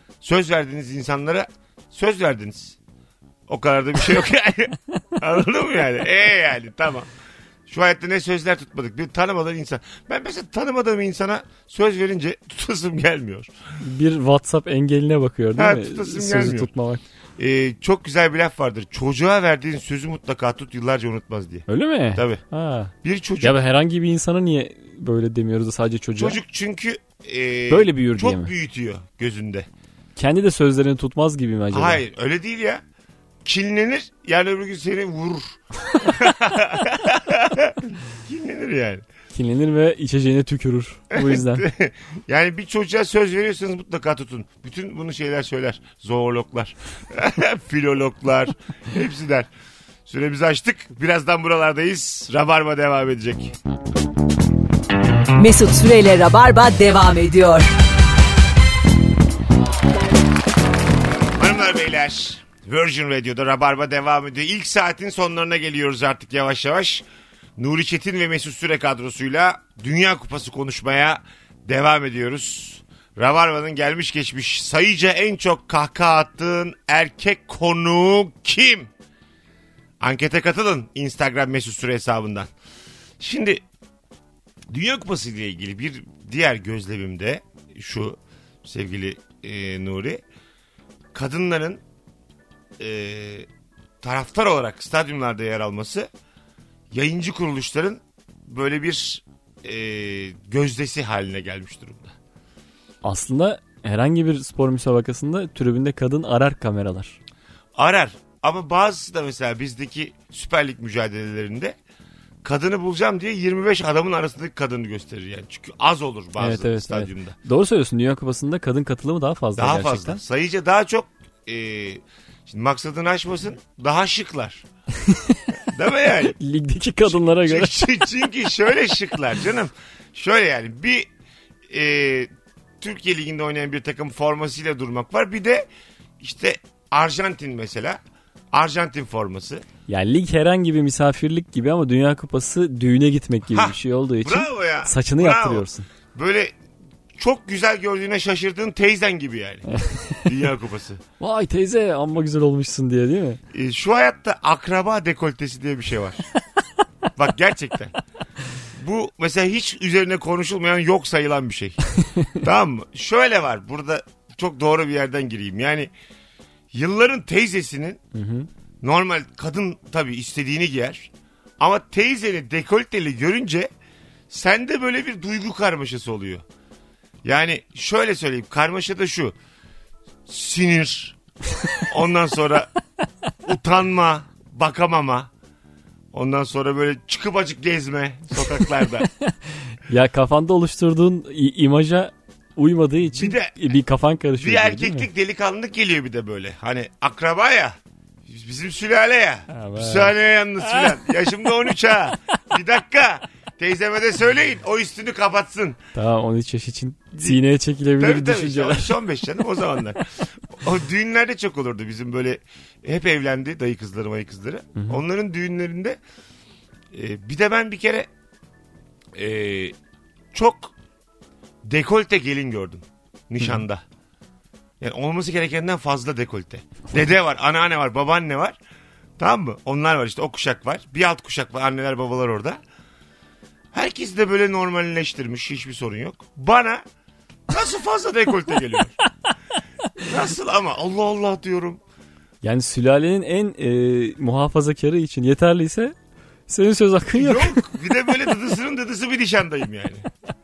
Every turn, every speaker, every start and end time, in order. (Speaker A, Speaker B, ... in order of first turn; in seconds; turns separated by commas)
Speaker A: 0.2-2.8, Speaker A: 3.5-7.1, Speaker A: 7.7-13.5, Speaker B: 13.8-17.0, Speaker A: 15.6-16.7, Speaker A: 17.4-22.4, Speaker B: 21.7-26.4, Speaker A: 23.0-23.6, Speaker A: 26.2-29.7, Speaker B: 27.7-28.5, Speaker B: 30.2-32.0, Speaker A: 31.7-32.8, Speaker A: 33.4-39.0, Speaker B: 39.3-41.7, Speaker A: 41.1-49.5, Speaker A: 50.1-53.5, Speaker C: 55.4-57.7, Speaker A: 61.4-67.0, Speaker A: 67.6-78.9, Speaker A: 80.0-82.5, Speaker A: 83.2-83.6, Speaker A: 84.7-90.2, Speaker A: 91.1-91.8, Speaker A: 92.8-93.5, Speaker A: 94.0-96.1, Speaker A: 96.9-102.2, Speaker B: 103.0-107.2, Speaker A: 107.8-111.8, Speaker A: 112.4-117.4, Speaker B: 116.4-120.2, Speaker A: 119.6-124.7, Speaker B: 125.0-125.5, Speaker A: 125.7-126.4, Speaker B: 126.3-127.9, Speaker A: 127.1-131.1, Speaker A: 131.7-132.3, Speaker A: 132.8-135.7, Speaker A: 136.2-138.0, Speaker A: 138.5-139.7, Speaker B: 139.9-145.9, Speaker A: 143.5-146.5, Speaker A: 147.2-149.7, Speaker B: 149.7-150.2, Speaker A: 150.2-151.0, Speaker B: 151.2-153.4, Speaker A: 153.5-156.3, Speaker A: 157.2-157.9, Speaker A: 158.7-161.8, Speaker A: 162.4-165.9, Speaker A: 166.7-168.0, Speaker B: 168.1-168.5, Speaker A: 168.8-173.7, Speaker A: 174.3-176.4, Speaker A: 177.2-179.3, Speaker A: 180.3-181.2, Speaker A: 181.8-182.7, Speaker A: 183.4-185.3, Speaker A: 186.1-189.1, Speaker B: 189.0-195.1, Speaker A: 193.2-193.7, Speaker A: 194.4-205.8, Speaker B: 199.5-200.2, Speaker B: 205.9-209.0, Speaker A: 207.2-207.4, Speaker A: 208.0-216.0, Speaker B: 214.8-215.0, Speaker A: 216.9-218.1, Speaker A: 219.2-219.8, Speaker A: 220.3-220.8, Speaker A: 221.6-223.8, Speaker A: 224.8-228.6, Speaker A: 229.2-232.6, Speaker A: 233.7-236.8, Speaker A: 237.5-239.0, Speaker A: 240.0-241.8, Speaker B: 242.4-245.9, Speaker B: 246.5-247.7, Speaker A: 247.2-250.1